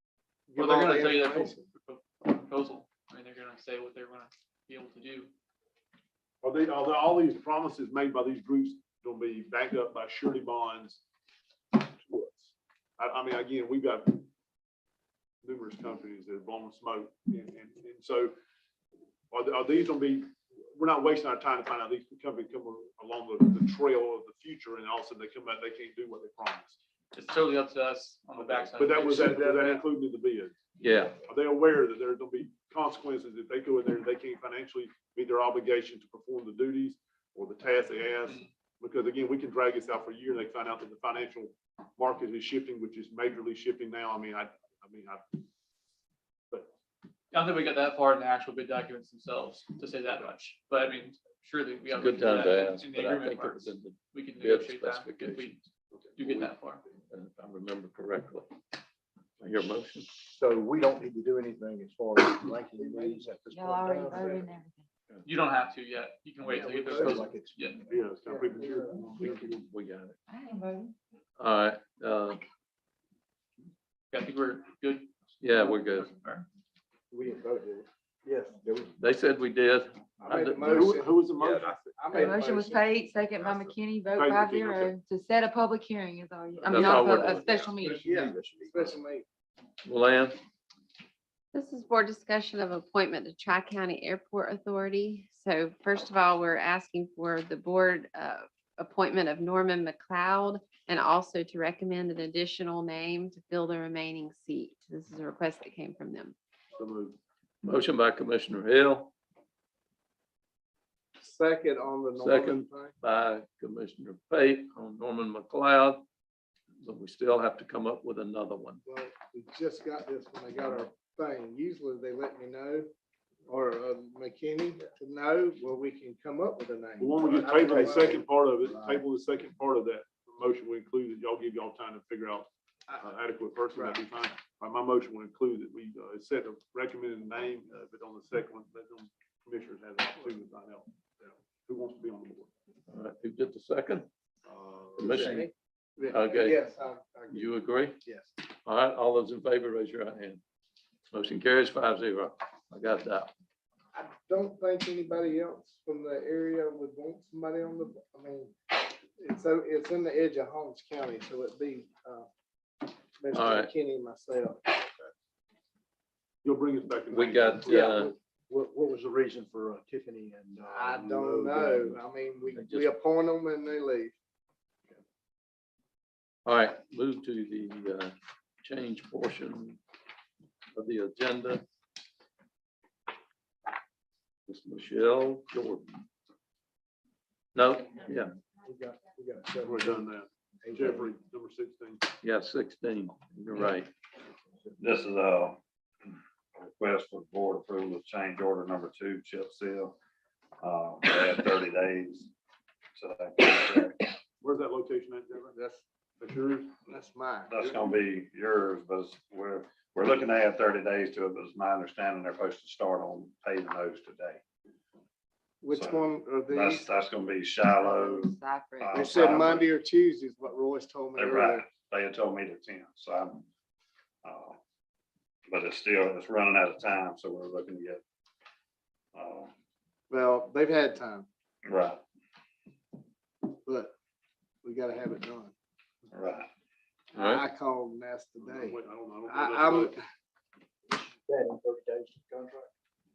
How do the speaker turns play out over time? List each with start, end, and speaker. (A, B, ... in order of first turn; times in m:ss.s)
0:00.5-0:01.6 A
0:00.6-0:05.3 B
0:06.4-0:11.0 C
0:11.7-0:14.3 C
0:15.4-0:18.3 C
0:19.3-0:26.8 C
0:27.1-0:29.8 B
0:28.4-0:30.6 C
0:30.8-0:31.2 D
0:31.2-0:45.4 C
0:47.3-0:55.6 B
0:51.9-0:55.6 D
0:56.2-0:56.8 B
0:57.1-0:58.5 D
0:59.4-1:00.1 D
1:00.0-1:04.5 E
1:02.7-1:03.2 A
1:03.5-1:04.9 F
1:03.9-1:04.3 A
1:05.2-1:07.8 B
1:06.5-1:07.2 A
1:06.9-1:08.1 E
1:07.9-1:09.6 C
1:09.2-1:10.2 D
1:10.3-1:11.0 F
1:11.4-1:12.4 D
1:14.1-1:15.1 B
1:15.4-1:16.1 D
1:15.6-1:16.5 B
1:17.1-1:19.0 E
1:19.0-1:20.8 D
1:20.2-1:21.4 A
1:20.6-1:22.2 C
1:21.9-1:22.9 A
1:22.1-1:28.2 F
1:23.4-1:25.0 C
1:26.6-1:27.5 D
1:27.8-1:29.2 A
1:29.8-1:30.4 D
1:31.5-1:46.4 G
1:46.7-1:47.2 C
1:47.6-1:49.1 D
1:51.2-1:53.0 A
1:52.2-1:56.0 D
1:56.8-1:58.8 D
1:58.9-2:02.9 A
2:03.5-2:09.0 A
2:07.0-2:22.5 C
2:07.7-2:08.2 E
2:13.7-2:14.0 A
2:22.9-2:24.1 D
2:24.5-2:25.5 C
2:25.0-2:25.5 D
2:25.0-2:28.3 A
2:26.1-2:26.7 D
2:27.3-2:28.0 D
2:28.7-2:30.4 D
2:31.1-2:33.3 D
2:33.9-2:42.3 A
2:43.2-2:45.0 A
2:43.3-2:43.7 D
2:46.4-2:48.0 C
2:47.1-2:48.1 D
2:47.6-2:52.0 E
2:50.6-2:54.1 A
2:52.6-2:52.9 D
2:56.5-2:58.1 D
2:58.6-2:59.8 D
3:00.8-3:01.6 D
3:04.5-3:05.8 D
3:07.6-3:08.3 D
3:08.6-3:10.1 E
3:09.6-3:12.1 C
3:10.6-3:11.1 E
3:12.2-3:13.9 D
3:14.8-3:15.6 H
3:16.6-3:20.0 H
3:20.6-3:22.3 H
3:23.0-3:24.1 H
3:24.4-3:25.6 C
3:25.4-3:25.8 A
3:26.2-3:26.9 C
3:26.9-3:27.6 A
3:27.5-3:34.4 H
3:35.6-3:36.9 A
3:35.7-3:39.7 H
3:37.8-3:39.0 F
3:38.9-3:41.7 A
3:41.2-3:43.5 H
3:44.2-3:44.6 H
3:45.5-3:48.0 H
3:49.1-3:49.5 H
3:50.1-3:51.3 A
3:51.6-3:52.0 H
3:53.5-3:53.9 A
3:54.6-3:55.5 A
3:56.1-3:56.5 H
3:57.1-4:00.0 A
3:57.2-3:57.4 D
3:58.4-4:00.0 C
4:00.9-4:02.7 E